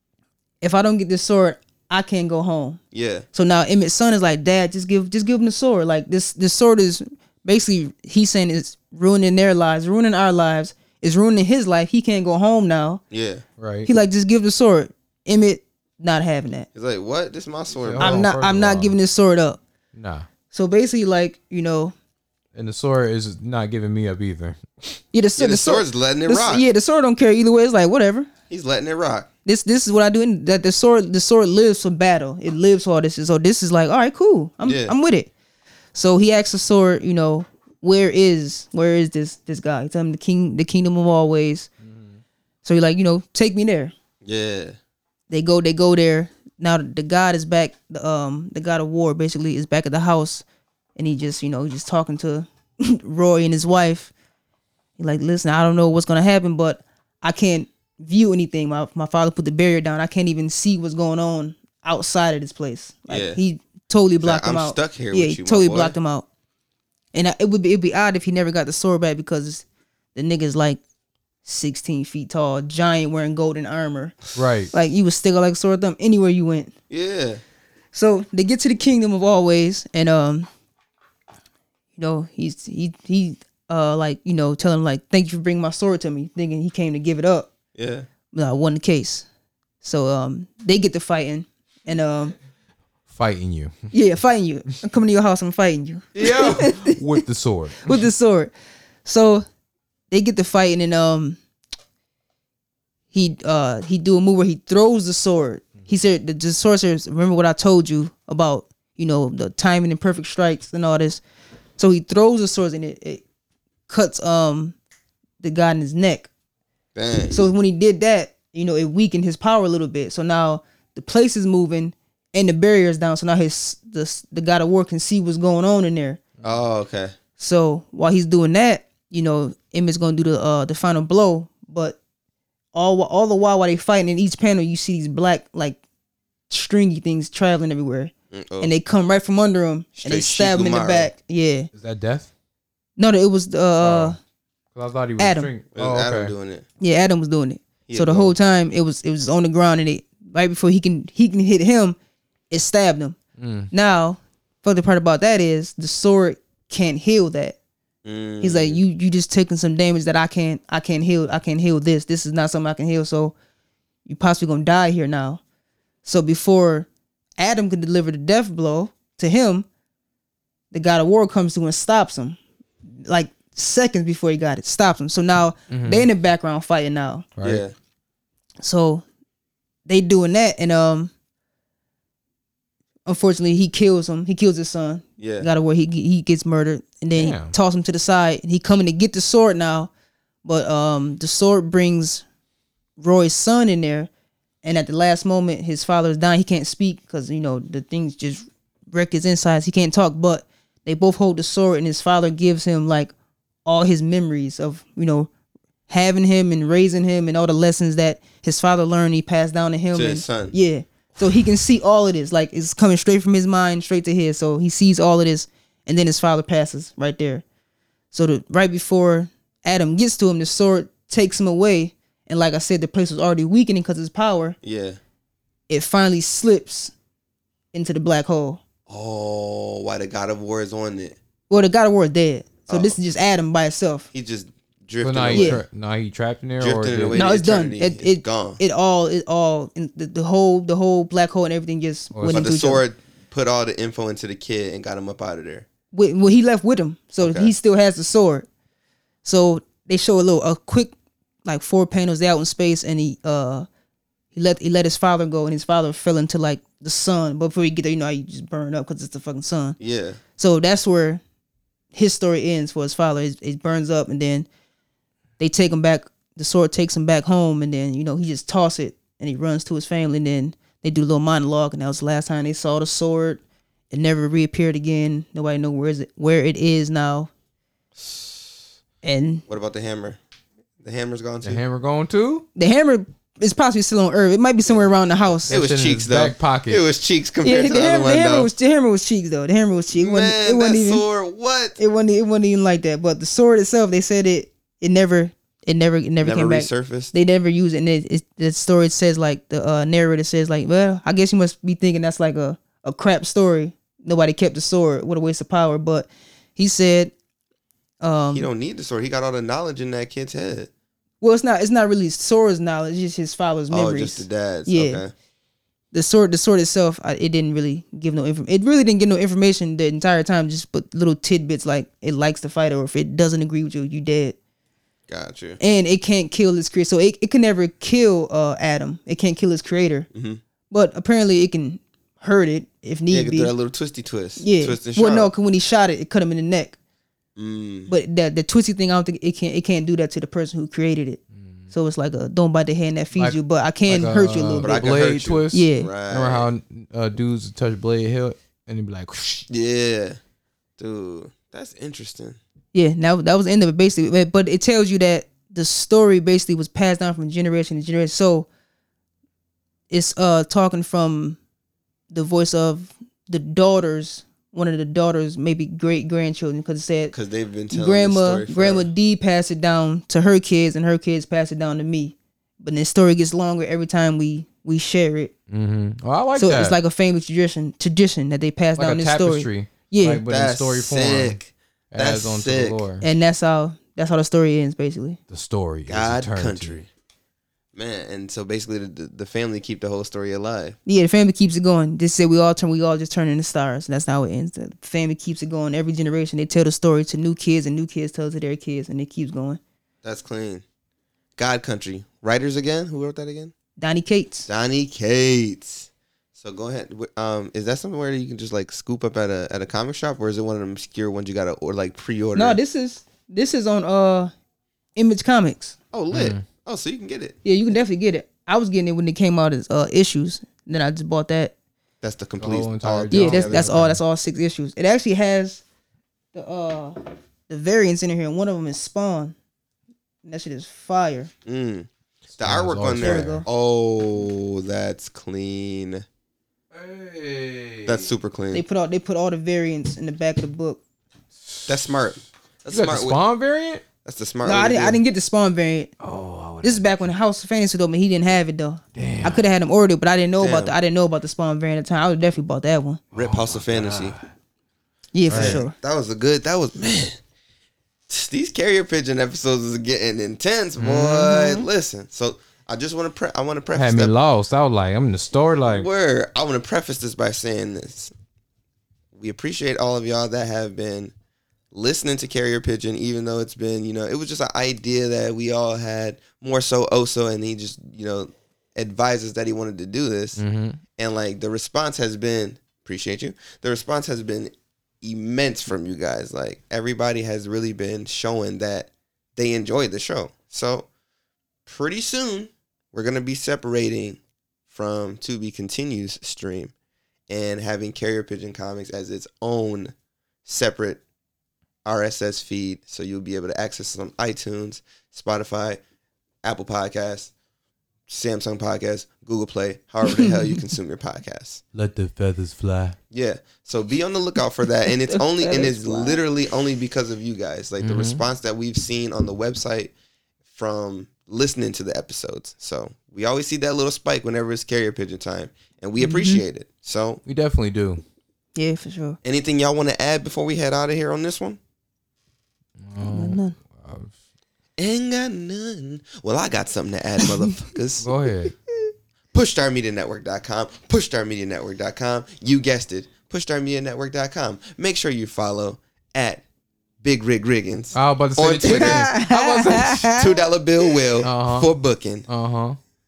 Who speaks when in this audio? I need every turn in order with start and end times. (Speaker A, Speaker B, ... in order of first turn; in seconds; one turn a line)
Speaker A: 0.6-2.8
Speaker B: 2.9-3.2
Speaker A: 3.3-13.0
Speaker B: 13.1-13.4
Speaker C: 13.6-13.9
Speaker A: 13.8-16.7
Speaker B: 16.7-18.2
Speaker C: 17.8-18.9
Speaker A: 18.0-19.6
Speaker C: 19.9-20.3
Speaker A: 20.5-21.9
Speaker C: 22.5-25.0
Speaker A: 25.1-28.3
Speaker B: 25.4-26.6
Speaker B: 28.5-29.3
Speaker A: 29.4-35.3
Speaker B: 34.6-34.9
Speaker A: 35.9-41.7
Speaker C: 41.8-42.2
Speaker A: 42.6-43.9
Speaker B: 44.2-44.8
Speaker A: 45.3-50.4
Speaker A: 51.0-54.1
Speaker A: 55.0-66.2
Speaker B: 63.1-63.4
Speaker B: 64.2-66.0
Speaker A: 67.1-70.8
Speaker A: 71.4-74.2
Speaker C: 74.3-74.7
Speaker A: 74.7-76.7
Speaker B: 76.9-77.4
Speaker A: 77.9-80.5
Speaker A: 82.0-87.5
Speaker B: 87.7-88.1
Speaker A: 88.3-89.2
Speaker A: 89.8-92.3
Speaker C: 93.1-93.9
Speaker A: 93.9-97.0
Speaker B: 96.2-96.6
Speaker C: 96.2-98.1
Speaker A: 97.8-98.5
Speaker A: 99.0-99.4
Speaker A: 100.1-101.4
Speaker A: 103.1-111.2
Speaker A: 111.8-113.2
Speaker A: 113.9-114.8
Speaker A: 115.4-116.3
Speaker B: 116.9-117.4
Speaker A: 117.3-126.2
Speaker B: 126.4-127.1
Speaker A: 127.4-132.0
Speaker A: 132.7-135.8
Speaker A: 136.5-141.7
Speaker B: 138.3-138.7
Speaker B: 140.0-141.1
Speaker C: 141.7-142.3
Speaker A: 143.0-144.2
Speaker C: 143.8-144.1
Speaker C: 144.7-146.3
Speaker A: 145.2-145.5
Speaker B: 145.7-146.6
Speaker A: 146.8-151.9
Speaker B: 147.9-148.3
Speaker A: 152.5-153.2
Speaker C: 153.4-153.7
Speaker A: 153.7-157.6
Speaker B: 158.0-158.8
Speaker A: 158.4-163.3
Speaker A: 164.1-165.4
Speaker A: 166.0-169.7
Speaker A: 170.7-172.4
Speaker A: 173.1-177.3
Speaker C: 175.7-176.1
Speaker C: 177.4-177.6
Speaker B: 177.4-177.7
Speaker A: 178.6-179.0
Speaker A: 179.9-181.1
Speaker A: 183.1-189.9
Speaker B: 185.2-185.5
Speaker C: 187.2-187.5
Speaker A: 190.4-192.2
Speaker A: 193.0-194.1
Speaker A: 194.6-203.1
Speaker A: 203.6-205.3
Speaker A: 205.9-217.4
Speaker B: 209.9-210.5
Speaker A: 218.1-224.6
Speaker B: 224.6-225.0
Speaker A: 225.7-226.9
Speaker A: 227.7-228.6
Speaker B: 228.9-231.2
Speaker A: 231.5-234.1
Speaker B: 232.7-233.0
Speaker B: 234.1-235.6
Speaker C: 235.0-237.2
Speaker A: 235.3-235.6
Speaker B: 236.6-238.6
Speaker A: 237.1-242.8
Speaker C: 242.1-242.5
Speaker B: 242.3-245.7
Speaker A: 245.9-248.5
Speaker B: 247.2-247.5
Speaker A: 249.2-250.9
Speaker A: 251.4-253.7
Speaker A: 254.3-259.8
Speaker B: 259.8-260.2
Speaker A: 260.4-261.2
Speaker A: 261.9-264.5
Speaker A: 265.4-277.3
Speaker B: 277.9-278.6
Speaker A: 279.0-279.4
Speaker B: 279.5-280.2
Speaker B: 280.8-281.6
Speaker C: 281.4-282.4
Speaker A: 282.6-285.6
Speaker C: 285.5-286.8
Speaker B: 285.5-288.5
Speaker A: 287.4-291.0
Speaker B: 289.9-291.8
Speaker A: 291.8-307.1
Speaker B: 296.2-297.1
Speaker A: 308.0-308.5
Speaker B: 308.3-310.7
Speaker A: 311.2-315.0
Speaker B: 313.7-315.1
Speaker A: 315.9-324.4
Speaker B: 325.1-325.6
Speaker A: 325.6-330.1
Speaker B: 330.1-330.4
Speaker A: 330.7-333.5
Speaker B: 333.1-335.3
Speaker A: 334.4-336.8
Speaker B: 337.4-337.9
Speaker A: 337.9-341.2
Speaker A: 341.7-344.8
Speaker C: 343.1-349.4
Speaker B: 344.6-346.5
Speaker A: 345.5-345.9
Speaker B: 349.5-350.2
Speaker B: 350.8-352.4
Speaker A: 352.7-358.5
Speaker A: 359.9-361.4
Speaker A: 362.1-367.1
Speaker B: 367.1-368.9
Speaker A: 367.7-375.3
Speaker C: 375.5-376.8
Speaker A: 376.4-380.2
Speaker C: 378.8-381.4
Speaker B: 380.3-382.8
Speaker C: 381.9-383.1
Speaker A: 383.0-385.2
Speaker C: 385.3-386.8
Speaker B: 385.9-386.9
Speaker B: 387.7-390.8
Speaker A: 390.9-399.6
Speaker B: 400.0-400.6
Speaker B: 401.4-403.5
Speaker A: 403.8-404.5
Speaker B: 404.5-412.6
Speaker A: 412.3-414.3
Speaker A: 414.9-415.8
Speaker B: 415.9-417.4
Speaker C: 416.1-416.4
Speaker A: 417.4-421.5
Speaker B: 422.0-423.7
Speaker C: 422.4-424.0
Speaker A: 423.1-425.6
Speaker A: 426.3-427.0
Speaker A: 427.5-429.3
Speaker A: 430.2-431.3
Speaker B: 431.4-436.0
Speaker C: 432.4-433.4
Speaker A: 433.0-433.4
Speaker C: 436.7-438.1
Speaker B: 437.8-438.6
Speaker A: 438.5-440.8
Speaker B: 441.7-443.2
Speaker C: 442.7-443.8
Speaker B: 444.0-445.0
Speaker A: 444.4-445.9
Speaker C: 446.0-447.1
Speaker A: 446.6-453.0
Speaker C: 448.9-449.5
Speaker B: 450.4-450.7
Speaker C: 453.1-454.3
Speaker B: 453.1-454.1
Speaker A: 455.1-455.7
Speaker C: 455.3-455.6
Speaker B: 455.3-457.2
Speaker B: 458.1-464.1
Speaker C: 460.8-461.5
Speaker C: 463.7-465.9
Speaker B: 465.7-468.1
Speaker B: 469.1-471.1
Speaker B: 471.7-480.4
Speaker C: 480.4-480.8
Speaker B: 481.0-490.9
Speaker B: 491.6-496.7
Speaker B: 497.3-499.9
Speaker B: 500.4-501.0
Speaker B: 501.8-505.8
Speaker B: 506.4-507.3
Speaker B: 508.1-511.6
Speaker A: 510.0-510.3
Speaker C: 511.7-513.0
Speaker B: 513.1-519.9
Speaker A: 515.0-516.2
Speaker C: 517.8-518.2
Speaker B: 520.5-527.2
Speaker A: 526.0-526.4
Speaker C: 527.2-528.0
Speaker A: 528.5-529.2
Speaker B: 529.2-531.6
Speaker C: 532.8-534.1
Speaker A: 533.0-533.5
Speaker B: 534.8-538.1
Speaker C: 538.0-538.5
Speaker B: 539.3-546.4
Speaker B: 547.0-549.1
Speaker C: 547.9-550.1
Speaker A: 548.6-550.4
Speaker B: 550.1-552.2
Speaker C: 551.2-551.7
Speaker C: 552.3-552.8